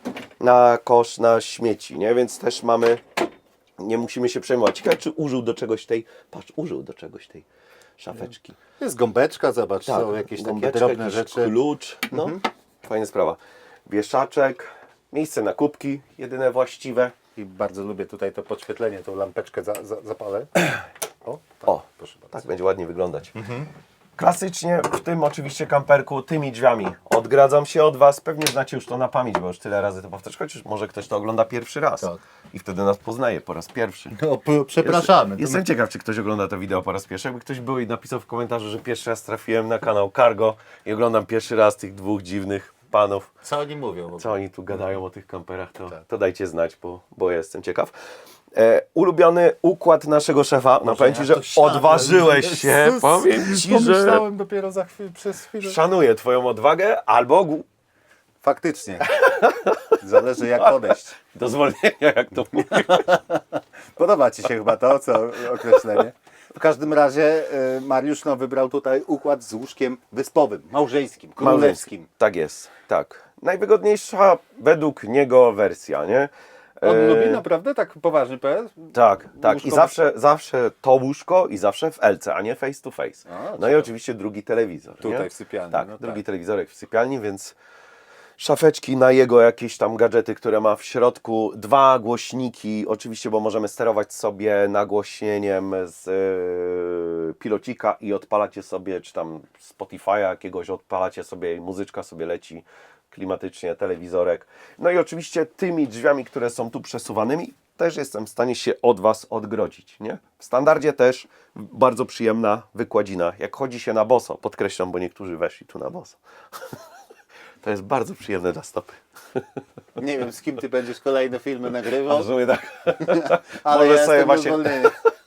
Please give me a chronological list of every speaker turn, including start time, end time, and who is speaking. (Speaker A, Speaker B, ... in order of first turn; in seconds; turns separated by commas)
Speaker A: 0.4-3.0, Speaker A: 3.8-7.5, Speaker A: 8.0-8.6, Speaker B: 8.8-11.5, Speaker A: 9.9-17.1, Speaker B: 12.1-12.4, Speaker B: 17.4-22.4, Speaker A: 21.6-23.4, Speaker B: 23.4-23.7, Speaker A: 24.1-34.1, Speaker B: 34.1-35.6, Speaker A: 34.8-43.3, Speaker B: 43.4-44.4, Speaker A: 44.2-47.9, Speaker A: 48.5-54.2, Speaker B: 50.8-55.8, Speaker A: 55.6-57.7, Speaker B: 58.4-59.2, Speaker A: 59.1-60.0, Speaker B: 60.0-61.1, Speaker A: 61.2-63.1, Speaker B: 62.7-72.1, Speaker A: 71.4-77.4, Speaker B: 76.8-80.0, Speaker A: 78.9-87.5, Speaker B: 83.3-83.9, Speaker B: 85.0-86.2, Speaker A: 88.4-116.8, Speaker A: 117.6-119.5, Speaker B: 120.0-122.3, Speaker A: 122.0-125.0, Speaker B: 123.0-125.0